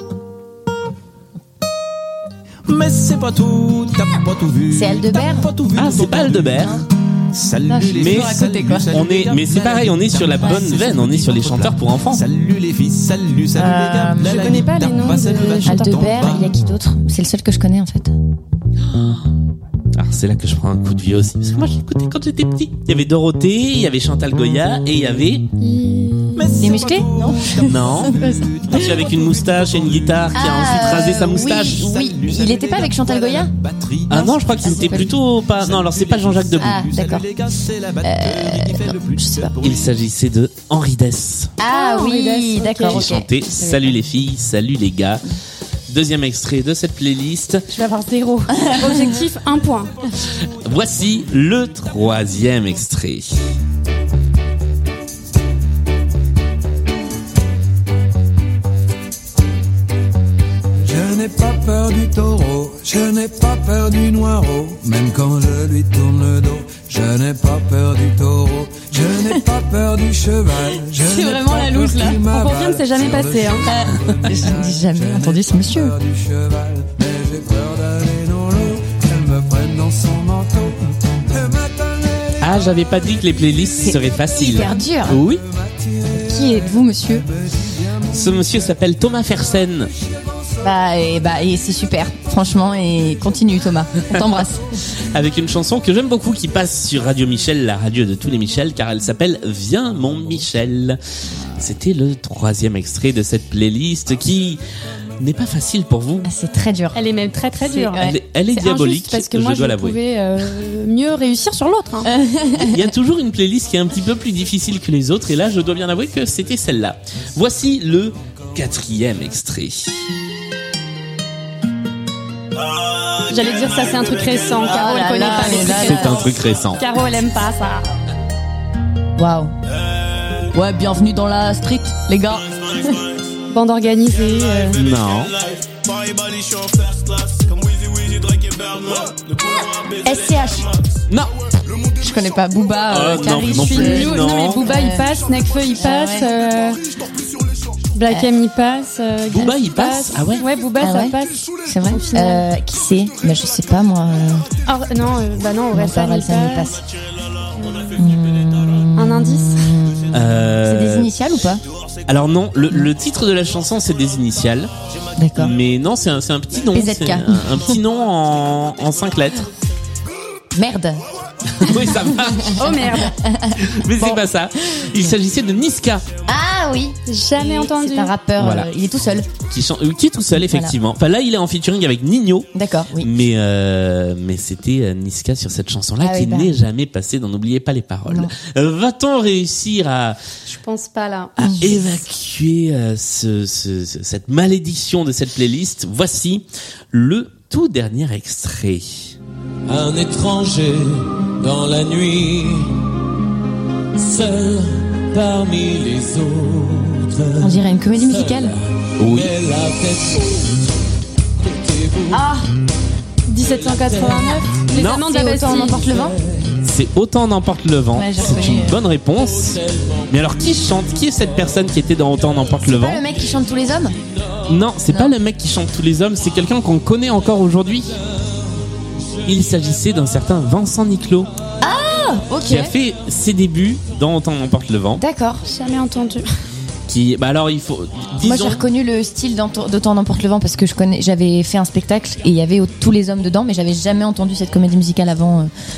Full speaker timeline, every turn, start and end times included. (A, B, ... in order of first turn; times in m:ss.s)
0:02.7-0:06.7 A
0:04.7-0:05.5 B
0:05.8-0:06.8 C
0:07.3-0:16.5 A
0:07.7-0:08.9 B
0:08.0-0:12.3 C
0:10.4-0:10.7 B
0:13.5-0:14.6 B
0:14.2-0:16.3 D
0:15.6-0:18.1 B
0:20.0-0:25.4 C
0:25.6-0:26.5 D
0:26.4-0:40.0 A
0:26.6-0:29.1 B
0:27.6-0:31.9 C
0:30.3-0:33.5 B
0:34.1-0:36.9 C
0:34.1-0:35.2 B
0:36.6-0:37.4 B
0:38.0-0:39.6 B
0:39.6-0:41.5 C
0:41.6-0:43.7 B
0:41.7-0:43.1 D
0:42.9-0:45.3 C
0:45.9-0:47.6 C
0:47.7-0:49.9 D
0:48.5-0:49.1 B
0:50.6-0:53.3 C
1:00.8-1:23.0 E
1:10.9-1:12.3 B
1:12.3-1:13.7 D
1:13.6-1:16.0 B
1:22.4-1:25.4 C
1:23.8-1:25.2 B
1:25.3-1:28.7 E
1:26.1-1:27.3 B
1:28.1-1:29.9 C
1:30.1-1:30.4 E
1:30.6-1:34.8 B
1:35.1-1:41.0 C
1:41.3-1:41.7 B
1:41.6-1:44.6 C
1:45.2-1:46.3 C
1:46.2-1:47.0 B
1:47.0-1:52.1 D
1:47.6-1:48.2 B
1:48.0-1:50.0 C
1:52.0-1:52.9 B
1:52.6-2:00.0 C
2:03.3-2:07.9 D
2:04.6-2:06.4 B
2:05.5-2:06.8 C
2:09.2-2:09.5 B
2:10.5-2:13.1 B
2:13.5-2:14.8 D
2:14.8-2:15.4 C
2:16.4-2:16.9 A
2:18.0-2:18.8 A
2:19.9-2:20.8 B
2:22.0-2:25.2 B
2:22.9-2:24.7 C
2:23.5-2:26.8 D
2:25.7-2:26.3 B
2:27.9-2:32.5 D
2:29.3-2:30.5 C
2:30.8-2:34.5 B
2:34.7-2:36.7 D
2:35.7-2:36.8 B
2:38.0-2:41.6 B
2:39.0-2:39.7 D
2:40.1-2:41.1 C
2:42.1-2:44.7 C
2:45.2-2:45.6 B
2:45.4-2:49.5 C
2:46.7-2:47.8 B
2:50.5-2:51.0 B
2:51.6-2:52.8 C
2:51.6-2:55.2 B
2:52.6-2:53.2 D
2:53.6-2:56.0 C
2:56.3-2:59.3 B
2:57.1-2:58.1 D
2:58.4-2:58.7 C
2:59.5-3:10.2 C
3:00.4-3:00.8 B
3:02.5-3:03.1 B
3:06.0-3:06.6 B
3:08.1-3:08.4 B
3:10.5-3:11.3 D
3:11.4-3:19.1 C
3:11.4-3:11.9 B
3:19.7-3:22.8 F
3:24.0-3:30.6 F
3:27.4-3:28.5 B
3:29.0-3:29.3 C
3:31.4-3:32.3 F
3:32.1-3:32.5 B
3:33.3-3:36.0 D
3:33.4-3:34.6 F
3:34.7-3:35.1 C
3:34.8-3:36.2 B
3:35.6-3:36.6 F
3:36.6-3:39.6 C
3:37.9-3:38.8 B
3:39.3-3:40.4 F
3:40.1-3:43.0 C
3:42.6-3:44.0 B
3:44.5-3:48.0 C
3:44.9-3:45.2 B
3:49.2-3:51.3 C
3:51.6-3:52.7 B
3:52.5-3:55.0 C
3:55.0-3:55.4 B
3:55.5-3:56.3 D
3:56.9-3:58.6 C
3:58.2-4:05.5 B